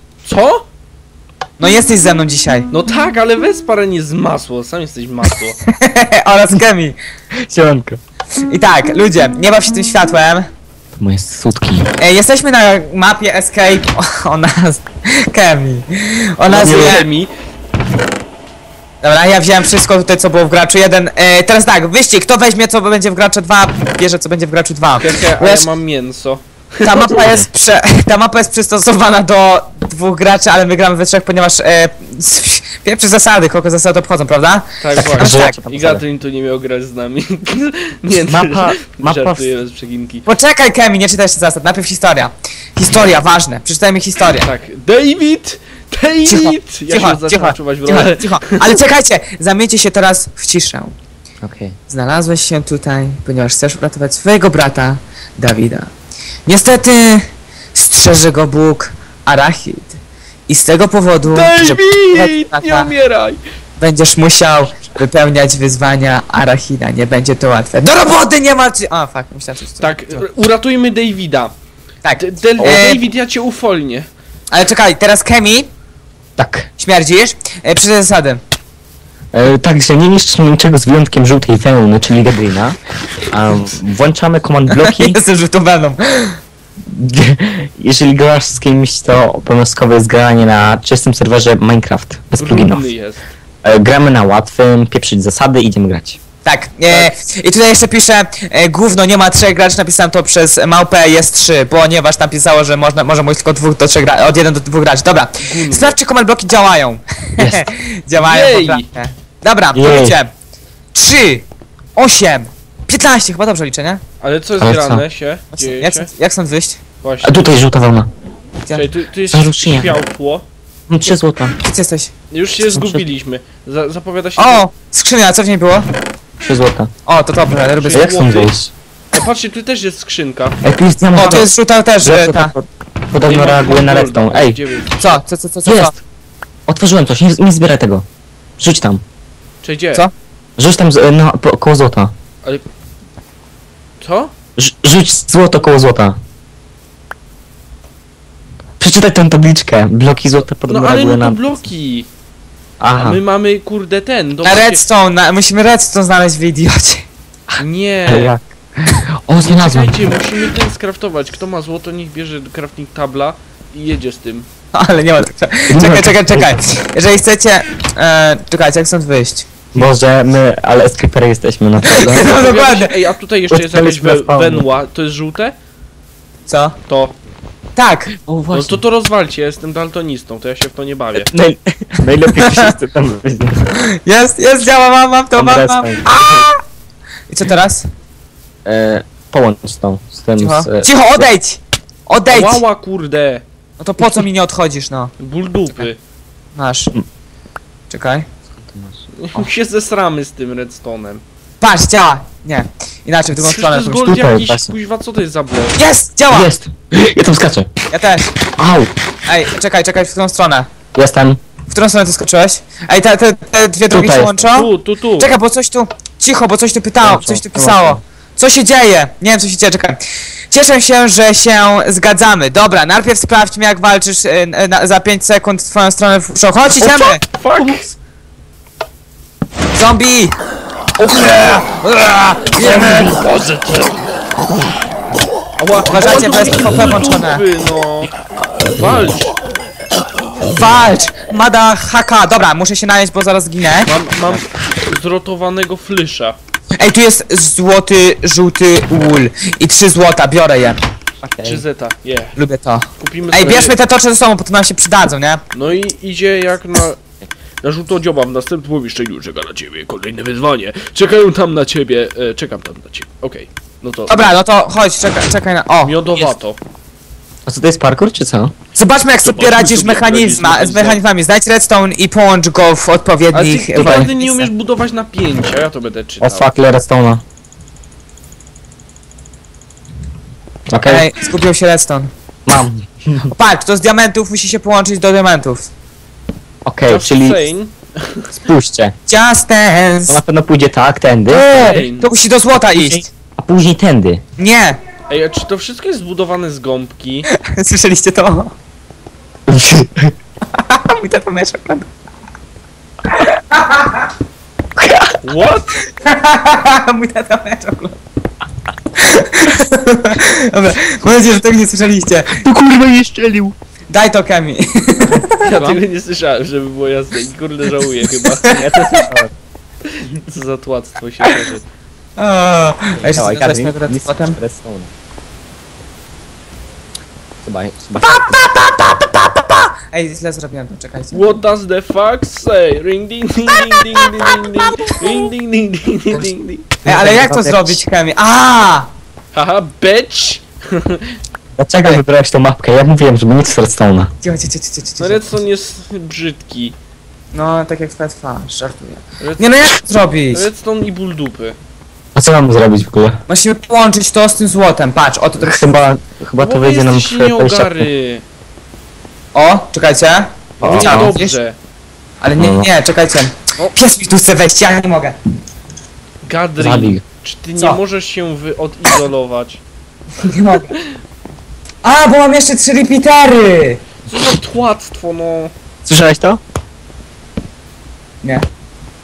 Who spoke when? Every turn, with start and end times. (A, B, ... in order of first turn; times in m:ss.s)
0:00.2-0:00.6 A
0:01.6-0:02.7 B
0:02.7-0:05.6 A
0:05.7-0:07.0 B
0:07.4-0:08.0 C
0:08.5-0:10.5 B
0:11.0-0:11.9 C
0:12.0-0:17.0 B
0:16.5-0:17.3 A
0:16.6-0:17.0 C
0:19.0-0:25.7 B
0:25.0-0:27.2 A
0:26.8-0:35.6 B
0:27.2-0:27.5 C
0:34.8-0:40.3 A
0:35.0-0:36.0 C
0:38.2-0:39.5 C
0:40.3-0:44.5 B
0:44.4-0:48.8 A
0:46.3-0:50.9 B
0:51.4-0:51.8 C
0:51.9-0:55.9 B
0:56.5-1:02.9 B
1:01.2-1:03.4 A
1:03.8-1:10.0 B
1:09.8-1:11.5 A
1:12.0-1:13.0 B
1:12.2-1:14.1 A
1:14.5-1:15.7 B
1:16.4-1:16.7 C
1:16.8-1:18.4 B
1:19.3-1:22.8 C
1:23.3-1:25.2 C
1:24.8-1:26.4 B
1:26.9-1:32.8 C
1:32.4-1:33.2 A
1:33.6-1:36.2 C
1:36.4-1:50.3 B
1:45.4-1:46.0 A
1:47.4-1:47.7 C
1:48.2-1:48.9 A
1:49.7-1:50.2 C
1:50.9-1:51.4 B
1:52.0-1:54.0 B
1:54.2-1:56.1 A
1:54.6-1:55.0 C
1:55.5-1:56.8 B
1:57.0-1:57.4 A
1:57.2-1:58.1 C
1:58.7-2:00.4 A
1:59.3-1:59.9 C
2:00.9-2:01.6 C
2:01.6-2:02.1 B
2:02.3-2:04.6 A
2:02.7-2:03.0 C
2:04.4-2:05.9 B
2:06.4-2:06.9 C
2:07.1-2:08.1 B
2:07.8-2:08.6 A
2:07.9-2:08.7 C
2:09.1-2:10.6 A
2:10.6-2:11.5 C
2:11.1-2:12.6 B
2:12.0-2:14.6 C
2:13.2-2:15.2 A
2:15.0-2:15.9 B
2:15.7-2:16.0 C
2:16.7-2:18.0 C
2:18.6-2:19.0 C
2:19.6-2:20.0 A
2:20.6-2:22.1 C
2:24.0-2:24.3 A
2:24.6-2:26.2 C
2:28.8-2:31.4 C
2:30.7-2:32.1 A
2:32.8-2:33.2 C
2:33.0-2:34.8 A
2:34.4-2:37.1 B
2:37.6-2:38.3 A
2:38.1-2:39.9 C
2:39.4-2:44.5 A
2:44.7-2:49.5 B
2:45.7-2:46.5 C
2:49.7-2:52.3 C
2:51.9-2:53.0 B
2:51.9-2:55.5 A
2:53.5-2:54.6 C
2:56.5-2:56.8 B
2:56.9-2:57.2 A
2:57.8-2:58.2 B
2:58.2-2:58.8 C
2:58.5-3:01.3 A
3:01.2-3:03.6 C
3:02.4-3:02.7 B
3:04.0-3:06.6 B
3:05.4-3:06.2 C
3:07.3-3:07.9 B
3:08.7-3:11.3 C
3:10.4-3:12.6 B
3:12.3-3:13.4 A
3:13.8-3:15.1 B
3:15.2-3:16.0 A
3:16.6-3:16.9 B
3:17.9-3:18.3 B
3:18.6-3:19.0 C
3:19.2-3:21.2 A
3:21.6-3:24.2 B
3:23.4-3:25.8 A
3:24.1-3:24.7 C
3:25.8-3:26.5 B
3:26.3-3:27.7 C
3:27.9-3:28.3 B
3:28.6-3:28.9 C
3:29.3-3:30.7 B
3:31.0-3:31.4 C
3:31.7-3:40.0 B
3:33.9-3:34.5 C
3:34.5-3:35.3 A
3:37.0-3:38.0 C
3:40.5-3:47.2 B
3:46.8-3:48.0 A
3:49.7-3:50.3 B
3:51.0-3:54.1 A
3:52.6-3:53.0 B
3:55.6-3:58.1 A
3:55.9-3:57.4 B
3:58.7-3:59.3 A
4:00.5-4:03.9 B
4:03.8-4:06.4 A
4:06.8-4:10.8 B
4:11.2-4:11.6 C
4:11.4-4:12.4 A
4:12.4-4:15.4 B
4:13.0-4:13.8 A
4:15.5-4:17.0 A
4:17.6-4:24.3 A
4:24.1-4:26.0 B
4:25.8-4:26.6 A
4:27.5-4:28.5 C
4:28.8-4:34.5 B
4:29.2-4:31.0 A
4:33.3-4:36.5 A
4:33.8-4:34.1 C
4:36.2-4:37.2 C
4:40.7-4:41.0 C
4:40.8-4:42.1 B
4:42.5-4:43.3 C
4:43.3-4:45.7 B
4:46.7-4:47.4 C
4:46.9-4:48.3 A
4:48.4-4:48.9 C
4:49.1-4:50.2 B
4:50.1-4:51.8 C
4:51.3-4:53.1 B
4:51.6-4:52.1 A
4:52.7-4:54.2 C
4:54.4-4:54.8 B
4:55.1-4:57.3 A
4:57.3-4:58.5 B
4:59.5-5:00.1 C
5:00.6-5:01.9 B
5:03.2-5:04.1 B
5:04.8-5:05.2 C
5:05.2-5:05.7 A
5:05.9-5:08.0 B
5:09.0-5:12.4 B
5:12.3-5:13.5 C
5:13.9-5:15.5 B
5:15.1-5:15.8 C
5:15.4-5:19.1 A
5:18.5-5:19.3 C
5:19.9-5:21.6 A
5:22.2-5:24.4 B
5:23.2-5:24.9 C
5:27.4-5:28.4 C
5:28.0-5:31.4 B
5:31.1-5:36.7 A
5:36.8-5:37.8 C
5:36.8-5:38.9 B
5:39.3-5:41.1 A
5:41.6-5:44.1 C
5:44.2-5:45.4 B
5:45.0-5:46.8 A
5:47.3-5:50.5 B
5:49.2-5:49.7 A
5:50.3-5:51.6 A
5:52.2-5:53.2 C
5:53.3-5:55.8 B
5:55.4-5:57.9 C
5:56.4-5:58.2 A
5:59.3-6:01.4 B
6:00.6-6:01.6 A
6:00.6-6:01.2 C
6:02.2-6:05.2 B
6:02.4-6:02.7 C
6:06.2-6:09.6 A
6:06.6-6:07.0 C
6:10.2-6:10.7 B
6:11.8-6:13.8 B
6:14.1-6:15.5 A
6:15.9-6:16.4 C